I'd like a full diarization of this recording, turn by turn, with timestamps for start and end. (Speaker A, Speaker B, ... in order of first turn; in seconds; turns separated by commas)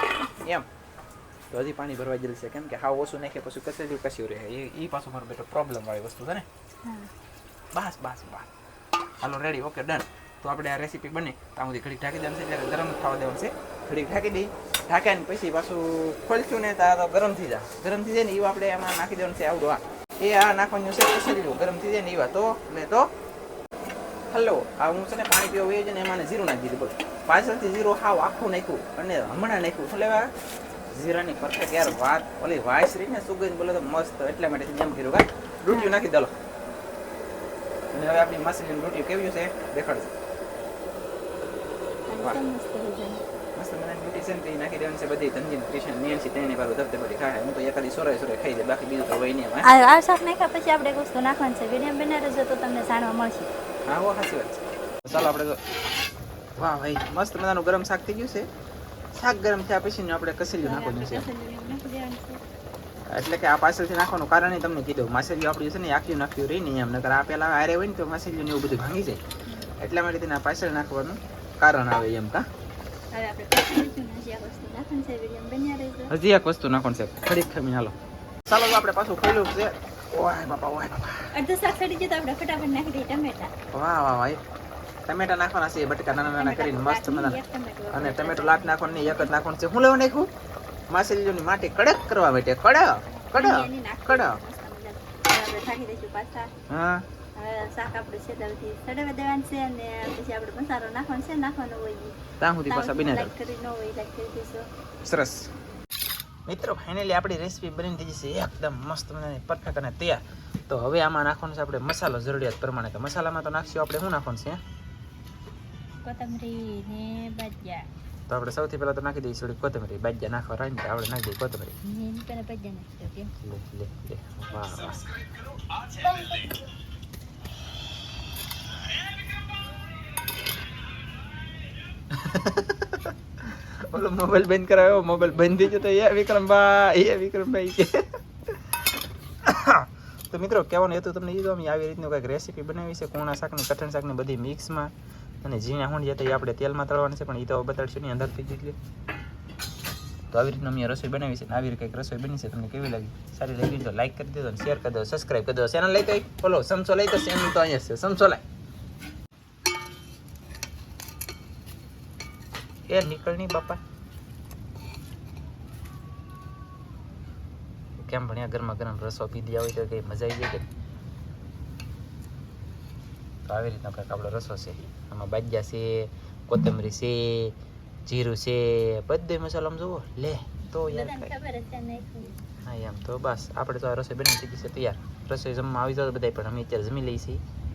Speaker A: 0.4-0.7, Speaker A: 1.5-6.5, Speaker B: 6.8-7.1, Speaker A: 7.7-8.5, Speaker A: 9.2-23.1, Speaker A: 24.3-30.3, Speaker A: 30.9-36.3, Speaker B: 35.7-36.0, Speaker A: 37.9-40.1, Speaker B: 42.1-43.2, Speaker A: 43.6-49.7, Speaker B: 49.6-53.5, Speaker A: 53.9-55.6, Speaker A: 56.6-58.5, Speaker A: 59.1-61.3, Speaker B: 60.6-62.4, Speaker A: 63.1-69.2, Speaker B: 69.5-69.7, Speaker A: 69.8-72.5, Speaker B: 73.1-76.1, Speaker A: 76.1-78.0, Speaker A: 78.5-81.3, Speaker B: 81.3-83.5, Speaker A: 83.7-84.4, Speaker A: 85.1-87.4, Speaker B: 86.3-89.3, Speaker A: 87.9-90.3, Speaker A: 90.9-94.4, Speaker B: 93.1-96.5, Speaker A: 96.7-97.0, Speaker B: 97.4-102.2, Speaker A: 102.4-103.3, Speaker B: 102.7-104.7, Speaker A: 105.0-105.5, Speaker A: 106.5-114.6, Speaker B: 116.0-117.9, Speaker A: 118.3-121.8, Speaker B: 121.8-123.3, Speaker A: 123.4-125.2, Speaker A: 132.1-138.6, Speaker A: 139.4-148.8, Speaker A: 150.3-158.4, Speaker A: 162.9-163.8, Speaker A: 168.0-170.7, Speaker A: 173.5-181.3, Speaker B: 180.9-182.4, Speaker A: 182.7-187.4